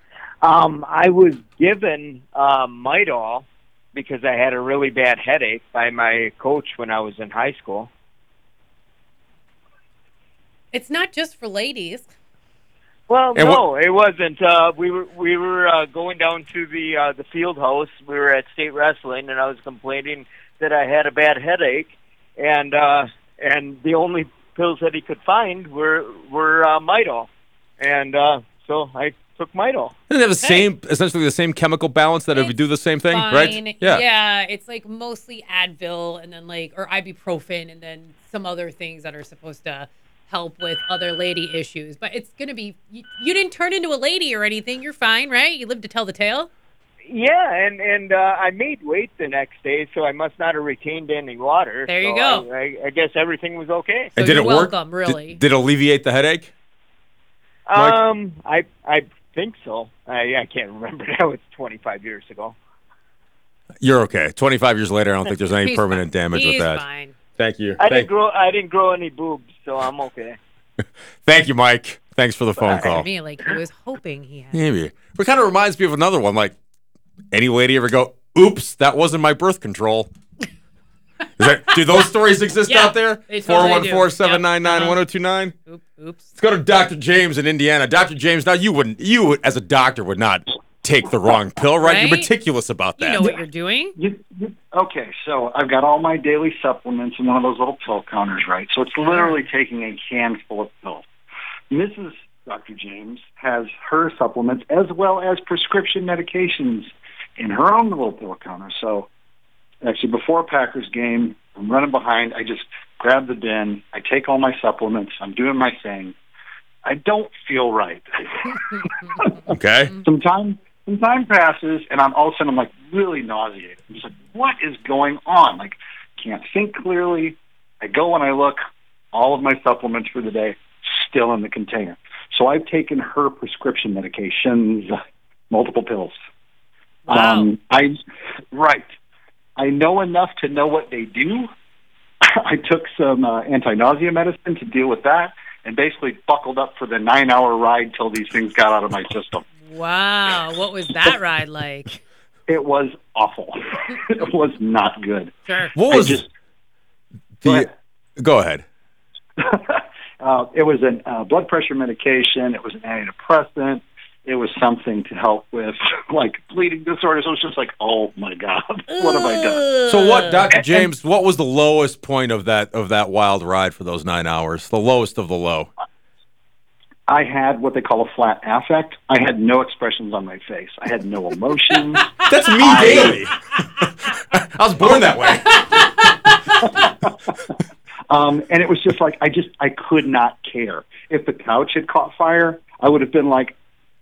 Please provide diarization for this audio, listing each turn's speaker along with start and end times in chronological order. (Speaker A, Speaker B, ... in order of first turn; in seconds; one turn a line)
Speaker A: 0.4-7.9
Speaker B: 10.7-12.1
Speaker A: 13.1-29.9
Speaker C: 13.3-13.6
Speaker C: 30.1-34.0
Speaker B: 30.4-30.7
Speaker B: 32.3-46.5
Speaker A: 47.0-54.1
Speaker B: 51.9-52.5
Speaker B: 54.2-55.4
Speaker C: 54.2-56.5
Speaker A: 57.7-62.6
Speaker C: 63.8-66.8
Speaker B: 65.3-67.1
Speaker C: 67.4-68.1
Speaker A: 67.8-70.4
Speaker C: 71.2-73.1
Speaker B: 72.8-74.6
Speaker C: 74.5-76.5
Speaker C: 77.3-80.1
Speaker C: 81.4-85.5
Speaker B: 81.4-81.8
Speaker B: 82.7-85.0
Speaker B: 85.7-86.3
Speaker C: 86.3-93.3
Speaker B: 91.8-92.3
Speaker B: 93.0-93.9
Speaker D: 94.0-101.0
Speaker B: 99.0-99.4
Speaker D: 101.7-109.1
Speaker D: 109.8-116.1
Speaker D: 116.8-119.4
Speaker C: 119.5-119.9
Speaker D: 120.0-128.6
Speaker D: 129.1-134.9
Speaker D: 135.5-136.1
Speaker B: 137.1-137.5
Speaker D: 137.1-137.9
Speaker D: 138.5-138.9
Speaker D: 139.6-141.5
Speaker D: 142.2-149.4
Speaker B: 149.6-152.0
Speaker D: 152.5-155.3
Speaker B: 155.5-155.7
Speaker C: 155.7-156.2
Speaker D: 155.9-156.3
Speaker C: 157.4-158.6
Speaker D: 159.4-169.7
Speaker B: 168.9-170.4
Speaker C: 169.8-175.7
Speaker D: 177.1-183.3
Speaker C: 182.2-185.5
Speaker D: 188.1-193.5